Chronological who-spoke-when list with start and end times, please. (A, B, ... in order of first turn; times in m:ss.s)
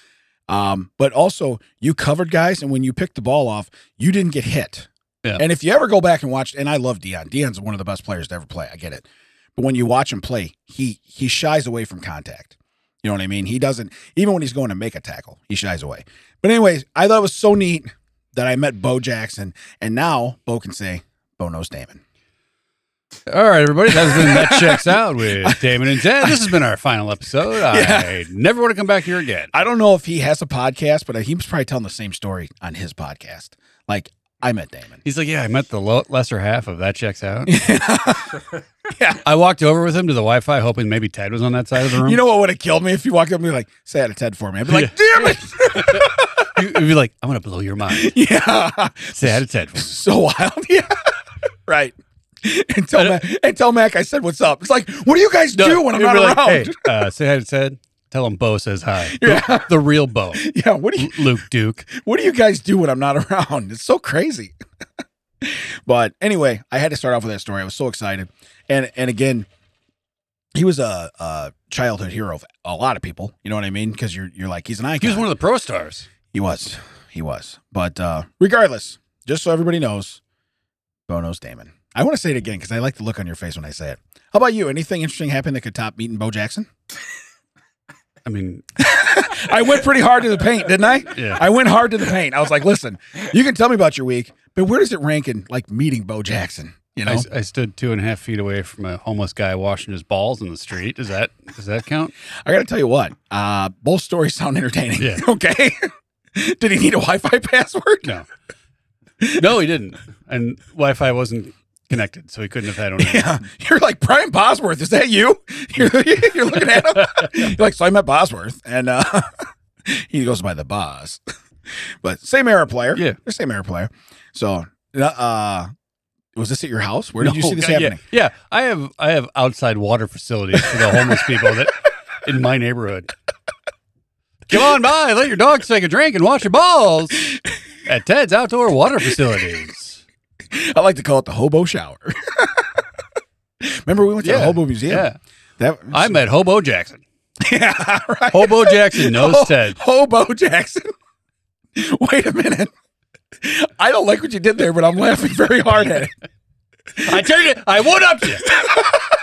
0:00.5-0:22.0 A
0:23.3-0:29.5 B
0:23.9-0:26.4 A
0:27.7-0:28.1 A
0:29.5-0:35.0 A
0:35.0-0:37.5 B
0:37.5-0:39.2 A
0:39.2-0:42.2 B
0:41.8-0:46.6 A
0:44.7-0:48.2 B
0:47.9-0:50.9 A
0:49.2-0:49.9 B
0:51.7-0:56.9 A
0:53.0-0:53.2 B
0:55.5-1:00.4 B
0:59.1-0:59.7 A
1:00.3-1:01.3 A
1:01.0-1:01.8 B
1:01.8-1:04.5 A
1:05.4-1:09.5 A
1:10.5-1:15.3 A
1:15.0-1:16.1 B
1:16.3-1:20.2 A
1:21.1-1:26.7 A
1:28.2-1:28.6 B
1:28.8-1:37.3 A
1:31.1-1:31.4 B
1:37.0-1:42.1 B
1:42.4-1:48.1 A
1:45.0-1:45.2 B
1:49.4-1:53.3 B
1:53.0-1:59.3 A
1:59.8-2:01.2 A
2:01.7-2:05.7 A
2:06.4-2:08.0 A
2:07.2-2:13.1 B
2:14.5-2:20.0 B
2:20.5-2:22.8 A
2:23.6-2:25.1 A
2:24.2-2:25.2 B
2:25.6-2:26.1 A
2:25.9-2:27.0 B
2:27.4-2:30.9 A
2:28.3-2:29.8 B
2:31.7-2:32.7 A
2:33.4-2:36.1 A
2:37.0-2:38.5 B
2:38.5-2:39.0 A